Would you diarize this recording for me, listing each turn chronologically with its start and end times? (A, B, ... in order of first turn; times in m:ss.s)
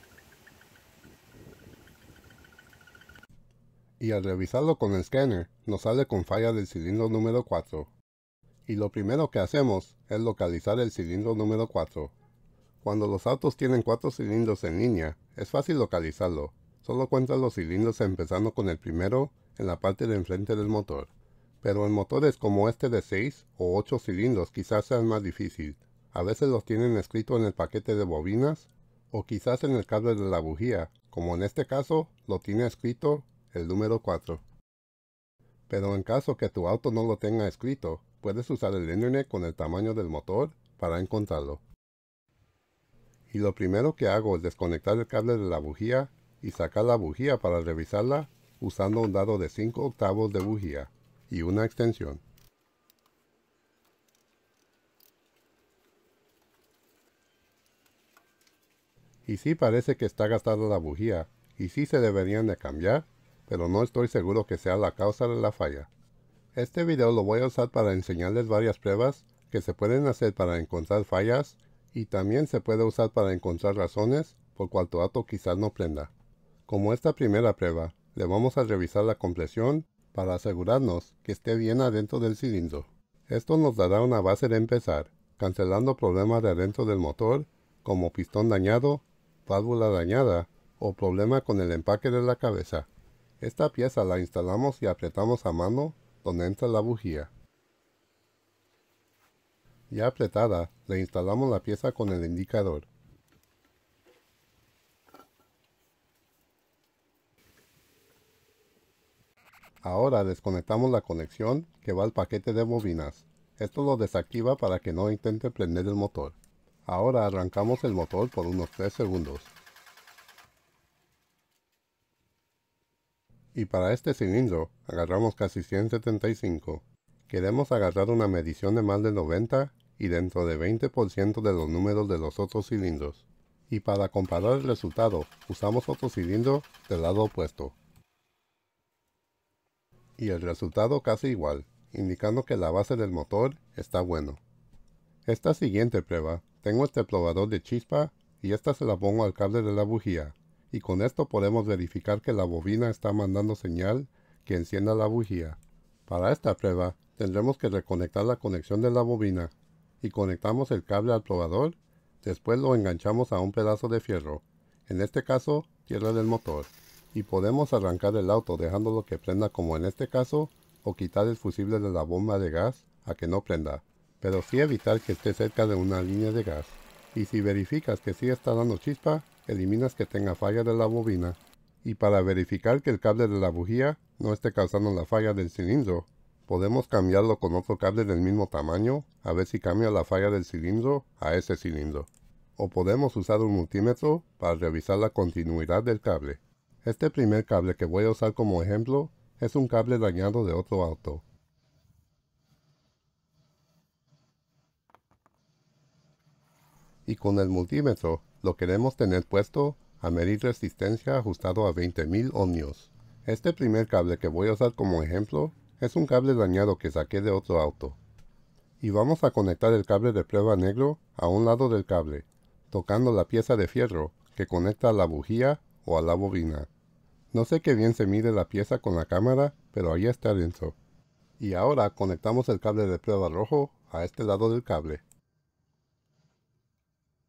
0:04.0-0:07.9 A
0:08.7-0:12.1 A
0:12.8-0:21.1 A
0:21.6-0:34.4 A
0:35.7-0:41.6 A
0:43.3-0:52.2 A
0:59.3-1:05.9 A
1:06.5-1:16.1 A
1:16.7-1:32.9 A
1:33.4-1:37.3 A
1:39.9-1:42.9 A
1:49.8-1:59.5 A
2:03.6-2:17.8 A
2:20.2-2:24.4 A
2:25.2-3:21.2 A
3:27.1-3:38.0 A
3:38.8-3:46.7 A
3:47.3-3:50.8 A
3:51.4-3:55.0 A